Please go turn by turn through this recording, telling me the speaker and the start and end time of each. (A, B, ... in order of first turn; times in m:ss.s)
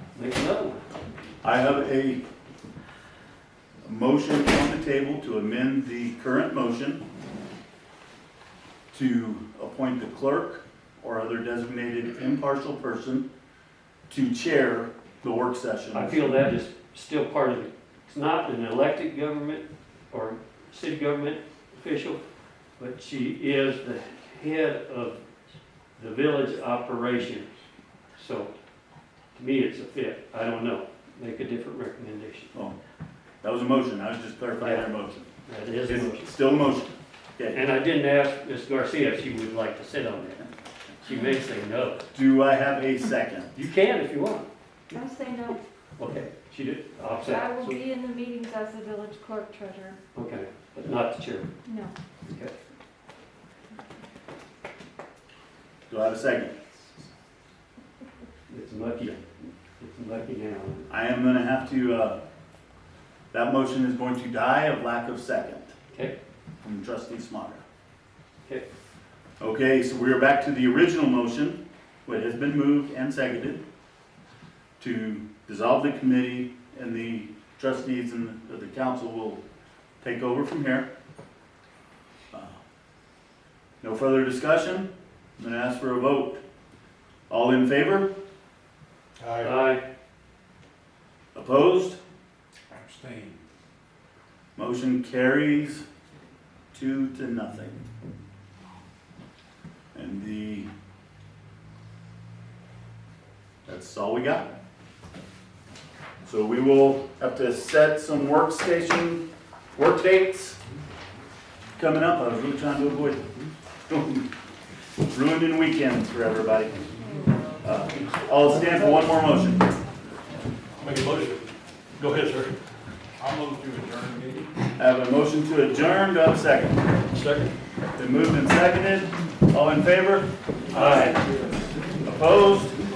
0:00.1-0:00.8 A
0:01.4-0:02.2 B
0:03.8-0:07.0 B
0:08.9-0:13.3 B
0:14.1-0:16.2 B
0:15.9-0:22.2 A
0:22.8-0:25.2 A
0:26.0-0:27.5 A
0:28.2-0:28.5 A
0:29.4-0:32.5 A
0:33.4-0:35.3 B
0:35.5-0:36.3 A
0:35.9-0:37.6 B
0:37.5-0:40.5 A
0:41.0-0:42.0 A
0:42.1-0:43.5 B
0:43.6-0:44.5 A
0:44.9-0:45.6 C
0:46.0-0:47.8 A
0:47.3-0:50.0 C
0:50.1-0:51.5 A
0:51.6-0:51.9 C
0:52.3-0:52.5 A
0:55.9-0:56.8 B
0:58.5-1:00.9 A
1:00.9-1:02.2 B
1:03.3-1:05.7 B
1:06.6-1:07.6 B
1:09.4-1:13.6 B
1:14.8-1:19.4 B
1:20.0-1:20.9 B
1:22.3-1:22.6 B
1:23.8-1:26.4 B
1:27.3-1:28.1 B
1:29.2-1:29.6 D
1:29.4-1:29.8 A
1:31.3-1:32.0 B
1:32.8-1:33.4 D
1:34.6-1:35.8 B
1:36.7-1:37.8 B
1:39.9-1:40.7 B
1:43.7-1:44.5 B
1:46.2-1:49.2 B
1:49.7-1:50.6 B
1:51.8-1:53.2 B
1:53.9-1:54.3 B
1:55.1-1:56.9 B
1:57.6-1:59.7 B
2:00.8-2:01.4 D
2:02.0-2:02.5 D
2:03.2-2:04.5 D
2:04.8-2:06.8 B
2:07.1-2:07.6 D
2:08.0-2:11.4 B
2:10.7-2:11.2 A
2:12.0-2:12.8 B